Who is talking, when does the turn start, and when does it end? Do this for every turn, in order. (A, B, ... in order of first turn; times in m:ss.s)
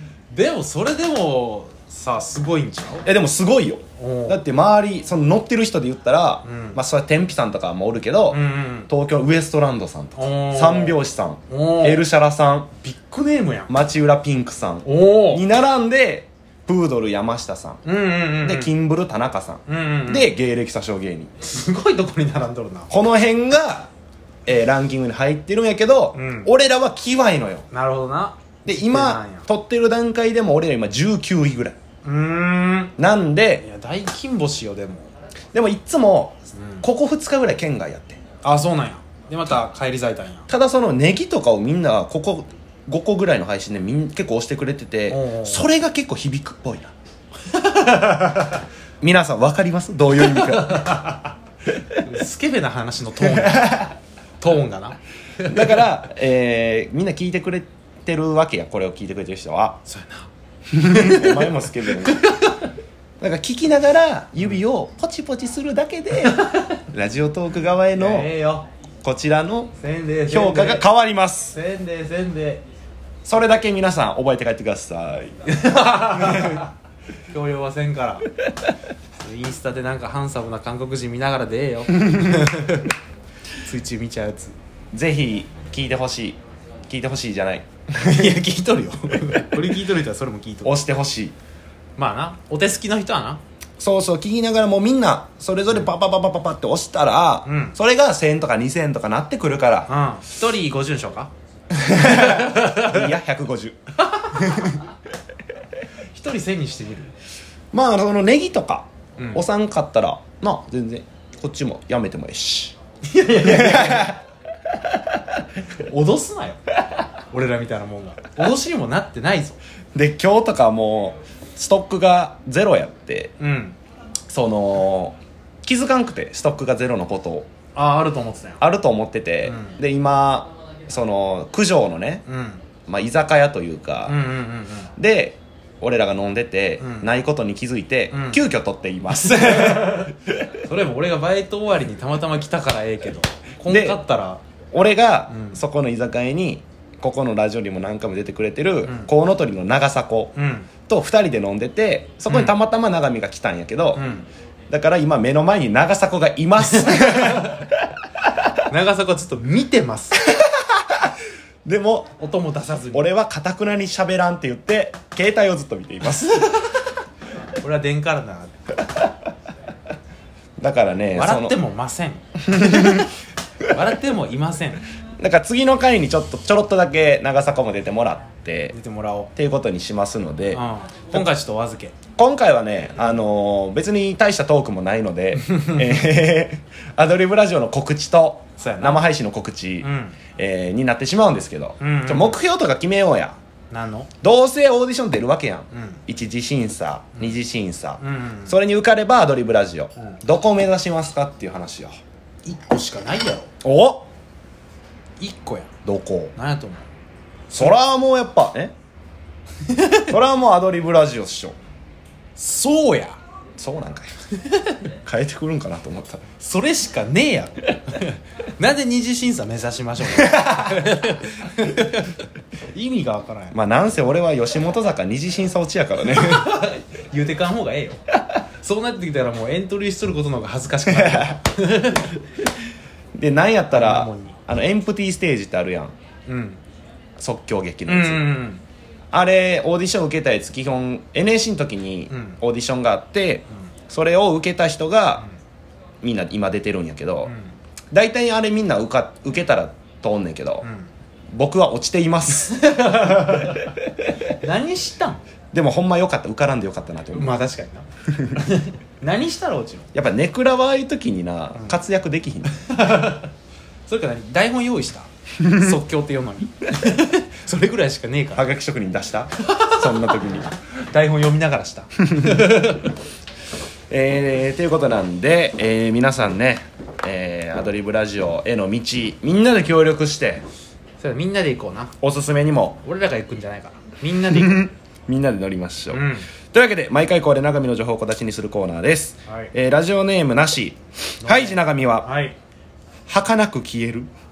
0:00.3-0:03.1 A
0:03.0-0:12.7 B
0:04.0-0:04.4 A
0:06.4-0:06.8 A
0:08.3-0:08.9 A
0:10.1-0:12.0 A
0:12.8-0:13.7 A
0:13.7-0:17.8 B
0:14.8-0:15.4 A
0:17.8-0:18.7 A
0:18.4-0:21.3 B
0:19.7-0:20.3 A
0:21.4-0:22.9 A
0:22.9-0:23.9 B
0:24.4-0:27.6 B
0:26.1-0:26.5 A
0:27.7-0:29.5 A
0:28.6-0:31.8 B
0:32.0-0:32.9 A
0:33.0-0:33.6 B
0:33.6-0:35.1 A
0:35.5-0:38.2 B
0:36.5-0:36.9 A
0:38.4-0:40.5 A
0:40.5-0:46.9 B
0:45.1-0:45.6 A
0:47.5-0:48.6 A
0:49.0-0:51.1 B
0:50.2-0:51.3 A
0:52.0-0:55.9 A
0:55.4-0:59.8 B
0:59.8-1:00.3 A
1:00.7-1:02.3 B
1:00.8-1:02.7 A
1:03.2-1:08.3 B
1:06.2-1:06.7 A
1:07.9-1:08.7 A
1:09.0-1:09.7 B
1:09.8-1:10.8 A
1:10.3-1:11.6 B
1:11.5-1:12.6 A
1:13.2-1:15.4 B
1:15.4-1:16.7 A
1:15.9-1:16.6 B
1:17.3-1:18.3 A
1:19.2-1:22.9 A
1:23.6-1:24.6 A
1:24.9-1:28.4 B
1:28.0-1:30.8 A
1:30.6-1:31.4 B
1:32.0-1:33.4 A
1:33.8-1:39.9 B
1:37.4-1:37.8 A
1:39.9-1:41.3 A
1:41.8-1:43.8 B
1:41.9-1:43.1 A
1:44.1-1:44.8 A
1:44.5-1:44.7 B
1:46.1-1:47.1 A
1:47.7-1:52.8 B
1:49.2-1:49.4 A
1:53.1-1:54.2 A
1:53.3-1:54.2 B
1:55.8-1:56.6 A
1:57.3-1:59.6 A
1:59.9-2:03.3 B
2:03.4-2:03.8 A
2:04.3-2:07.5 B
2:07.7-2:08.6 A
2:08.6-2:12.2 B
2:09.4-2:09.8 A
2:12.3-2:12.6 A
2:12.8-2:14.2 B
2:14.0-2:14.9 A
2:15.0-2:20.6 B
2:16.8-2:17.1 A
2:18.1-2:18.4 A
2:19.1-2:24.4 A
2:23.7-2:24.0 B
2:24.7-2:30.3 B
2:25.3-2:25.6 A
2:28.8-2:29.1 A
2:30.3-2:30.7 A
2:30.9-2:34.0 B
2:32.3-2:32.6 A
2:33.9-2:34.3 A
2:34.7-2:37.7 B
2:36.8-2:37.6 A
2:38.7-2:40.2 A
2:40.2-2:41.1 B
2:41.6-2:42.1 B
2:42.2-2:43.1 A
2:42.9-2:46.7 B
2:47.6-2:48.6 A
2:50.6-2:51.6 B
2:51.1-2:53.1 A
2:52.4-2:53.1 B
2:53.7-2:54.8 A
2:55.2-2:58.8 B
2:58.7-2:59.3 A
2:59.4-3:01.2 B
3:00.5-3:02.0 A
3:02.2-3:13.4 B
3:08.6-3:09.0 A
3:09.8-3:10.2 A
3:11.8-3:12.4 A
3:13.7-3:14.1 A
3:14.2-3:22.0 B
3:15.7-3:16.0 A
3:18.0-3:18.5 A
3:22.4-3:23.5 A
3:23.6-3:24.1 B
3:25.2-3:25.7 A
3:25.8-3:26.3 B
3:26.3-3:26.8 A
3:27.5-3:27.8 A
3:27.5-3:28.7 B
3:29.7-3:30.1 A
3:30.1-3:31.6 B
3:32.4-3:33.2 A
3:33.6-3:34.1 B
3:35.0-3:36.2 B
3:36.4-3:43.6 A
3:40.1-3:40.6 B
3:43.5-3:46.6 B
3:46.0-3:48.0 A
3:48.6-3:52.4 A
3:50.9-3:51.4 B
3:53.1-3:55.9 B
3:53.7-3:54.4 A
3:56.3-3:56.6 A
3:57.2-3:58.4 B
3:57.9-3:58.6 A
3:59.1-4:05.2 B
4:02.1-4:02.4 A
4:06.0-4:07.3 B
4:07.2-4:07.5 A
4:07.9-4:10.6 B
4:10.6-4:10.9 A
4:11.3-4:12.7 B
4:12.4-4:13.7 A
4:14.4-4:15.2 A
4:15.5-4:17.4 B
4:17.1-4:19.9 A
4:18.1-4:18.4 B
4:19.9-4:22.6 B
4:22.5-4:23.3 A
4:23.9-4:28.4 A
4:28.3-4:30.5 B
4:29.5-4:29.9 A
4:30.9-4:32.9 A
4:32.1-4:32.7 B
4:33.9-4:40.4 B
4:41.0-4:41.9 A
4:42.0-4:42.8 B
4:42.8-4:44.7 A
4:44.2-4:52.1 B
4:45.9-4:46.3 A
4:51.2-4:52.4 A
4:53.1-4:54.1 B